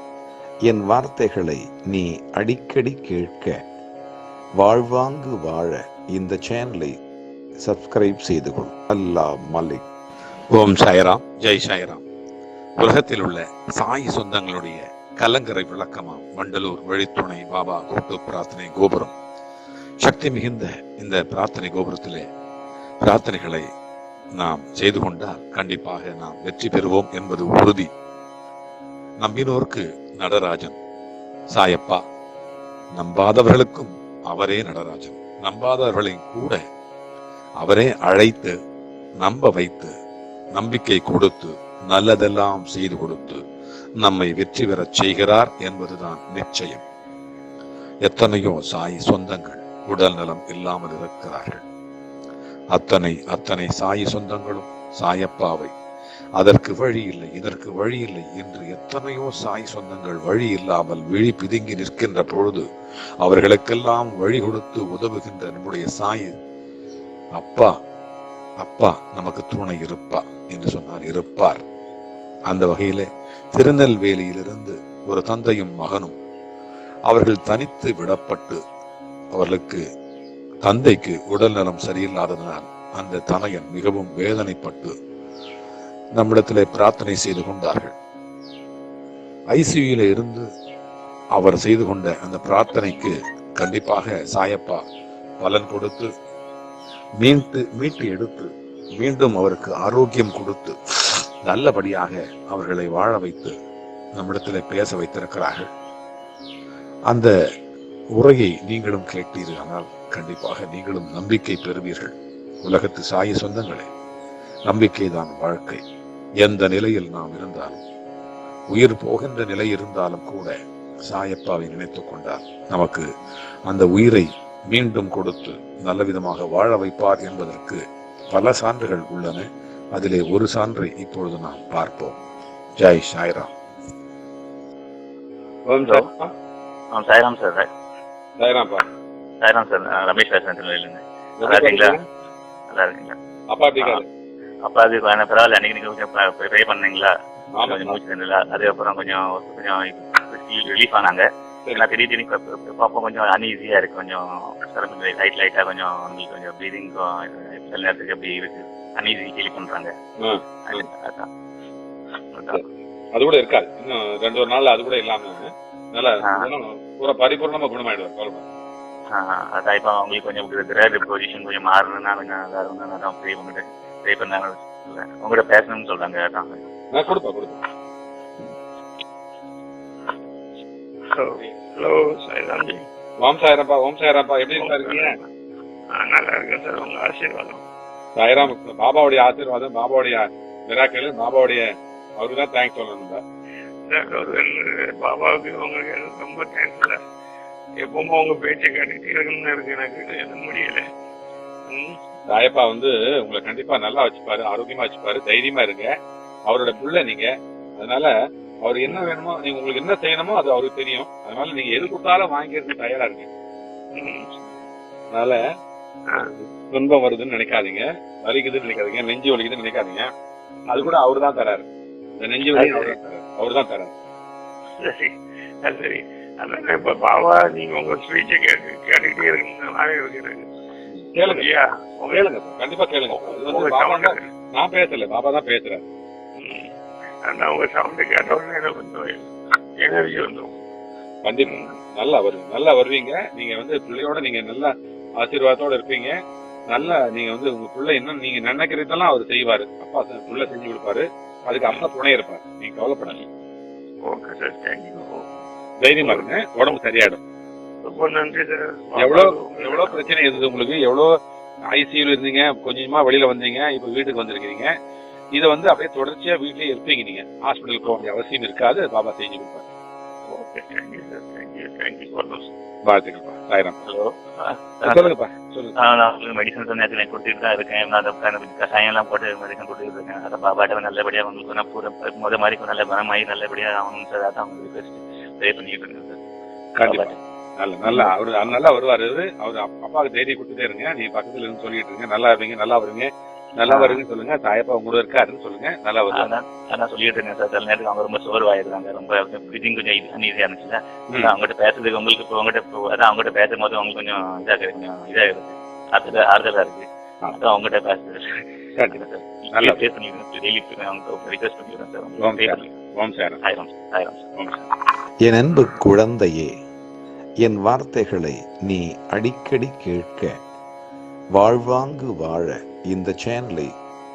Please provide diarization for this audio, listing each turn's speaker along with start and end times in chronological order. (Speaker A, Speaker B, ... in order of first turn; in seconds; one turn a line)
Speaker A: 0.7-3.6
Speaker A: 4.6-7.0
Speaker A: 7.6-9.8
Speaker B: 10.5-12.0
Speaker B: 12.8-19.1
Speaker B: 20.0-22.3
Speaker B: 23.0-23.6
Speaker B: 24.4-27.9
Speaker B: 29.2-30.8
Speaker B: 31.5-32.0
Speaker B: 32.9-36.6
Speaker B: 37.6-38.5
Speaker B: 39.2-39.9
Speaker B: 40.5-43.4
Speaker B: 44.0-46.8
Speaker B: 48.0-51.6
Speaker B: 52.7-55.7
Speaker B: 56.4-62.6
Speaker B: 63.2-66.3
Speaker B: 67.3-67.7
Speaker B: 68.6-71.6
Speaker B: 72.5-76.2
Speaker B: 77.1-78.6
Speaker B: 79.3-79.8
Speaker B: 80.6-84.9
Speaker B: 86.1-87.9
Speaker B: 89.5-90.5
Speaker B: 91.3-94.8
Speaker B: 95.4-96.1
Speaker B: 97.2-100.8
Speaker B: 101.4-103.5
Speaker B: 104.1-105.7
Speaker B: 108.1-113.9
Speaker B: 114.7-115.8
Speaker B: 116.4-117.8
Speaker B: 118.7-120.5
Speaker B: 121.0-123.0
Speaker B: 123.7-132.2
Speaker B: 132.8-133.5
Speaker C: 135.7-136.3
Speaker D: 136.9-137.7
Speaker C: 138.4-138.8
Speaker D: 139.4-142.0
Speaker C: 141.4-142.0
Speaker D: 142.7-143.2
Speaker C: 143.5-144.1
Speaker D: 144.6-159.9
Speaker C: 147.5-148.0
Speaker C: 160.2-160.9
Speaker D: 160.7-161.3
Speaker D: 162.3-162.6
Speaker C: 162.5-168.4
Speaker D: 166.2-166.5
Speaker D: 169.1-176.6
Speaker C: 176.9-177.6
Speaker E: 181.1-182.8
Speaker C: 183.2-185.2
Speaker E: 184.5-185.2
Speaker E: 185.9-187.6
Speaker C: 188.2-191.6
Speaker C: 192.2-193.2
Speaker E: 193.9-197.0
Speaker E: 197.8-200.8
Speaker E: 201.7-202.0
Speaker C: 202.3-205.9
Speaker C: 206.5-208.1
Speaker C: 208.6-213.3
Speaker E: 213.9-214.3
Speaker C: 215.1-215.4
Speaker C: 216.3-220.1
Speaker C: 220.7-221.7
Speaker C: 222.2-223.9
Speaker E: 222.5-222.9
Speaker E: 224.8-230.4
Speaker C: 230.9-231.5
Speaker E: 231.2-232.3
Speaker C: 232.1-235.8
Speaker E: 233.1-234.3
Speaker E: 236.3-236.7
Speaker E: 237.2-240.5
Speaker C: 241.2-246.1
Speaker E: 241.4-241.7
Speaker C: 246.7-253.2
Speaker E: 254.0-255.3
Speaker C: 255.8-257.2
Speaker E: 256.0-256.3
Speaker E: 257.8-260.1
Speaker C: 259.0-261.1
Speaker C: 261.7-264.7
Speaker C: 265.3-269.6
Speaker E: 270.3-272.5
Speaker C: 272.8-273.8
Speaker D: 273.8-275.1
Speaker C: 274.8-275.7
Speaker D: 275.8-286.2
Speaker C: 286.8-296.3
Speaker D: 286.8-287.1
Speaker D: 287.8-288.6
Speaker D: 293.7-294.0
Speaker D: 296.1-308.2
Speaker D: 308.9-312.7
Speaker C: 309.5-309.8
Speaker C: 312.2-313.4
Speaker D: 313.4-314.2
Speaker A: 315.2-316.5
Speaker A: 317.4-320.4
Speaker A: 321.3-323.7